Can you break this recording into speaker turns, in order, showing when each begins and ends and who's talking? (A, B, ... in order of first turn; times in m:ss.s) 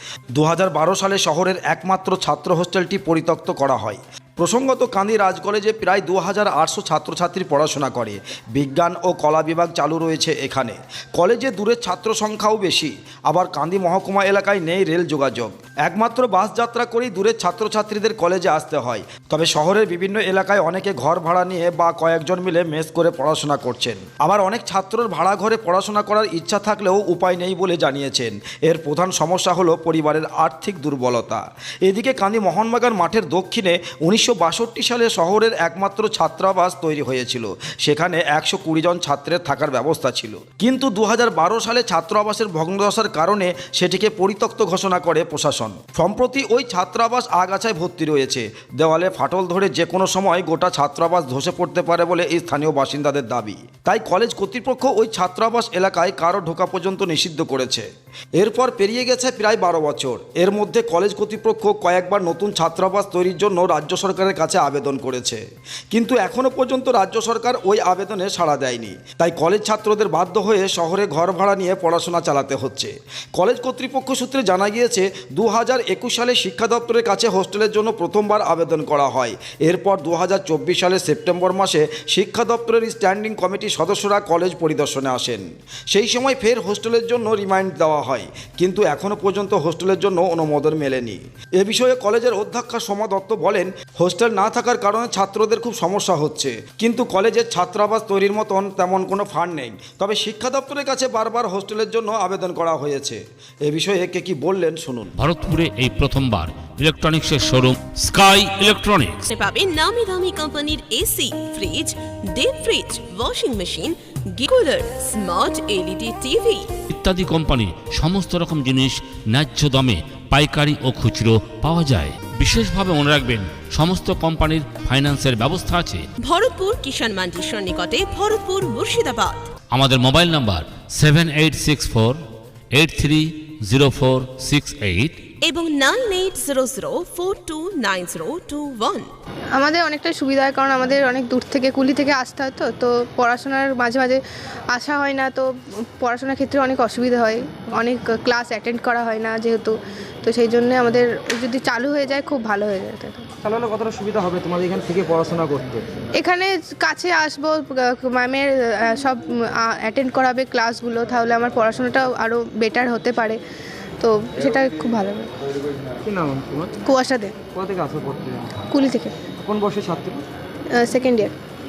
0:00.4-1:05.4 A
1:05.9-1:45.1 A
1:45.2-1:49.2 B
1:49.3-1:56.7 C
1:56.9-2:06.0 B
2:06.2-2:09.5 C
2:09.7-2:12.2 B
2:12.7-2:15.3 B
2:15.4-2:19.1 C
2:19.5-2:33.3 D
2:33.4-2:36.0 E
2:36.2-2:43.4 D
2:44.0-2:45.3 D
2:46.0-2:46.8 E
2:46.9-2:47.4 D
2:47.5-2:48.5 E
2:48.7-2:49.1 D
2:49.4-2:50.2 E
2:50.7-2:51.3 D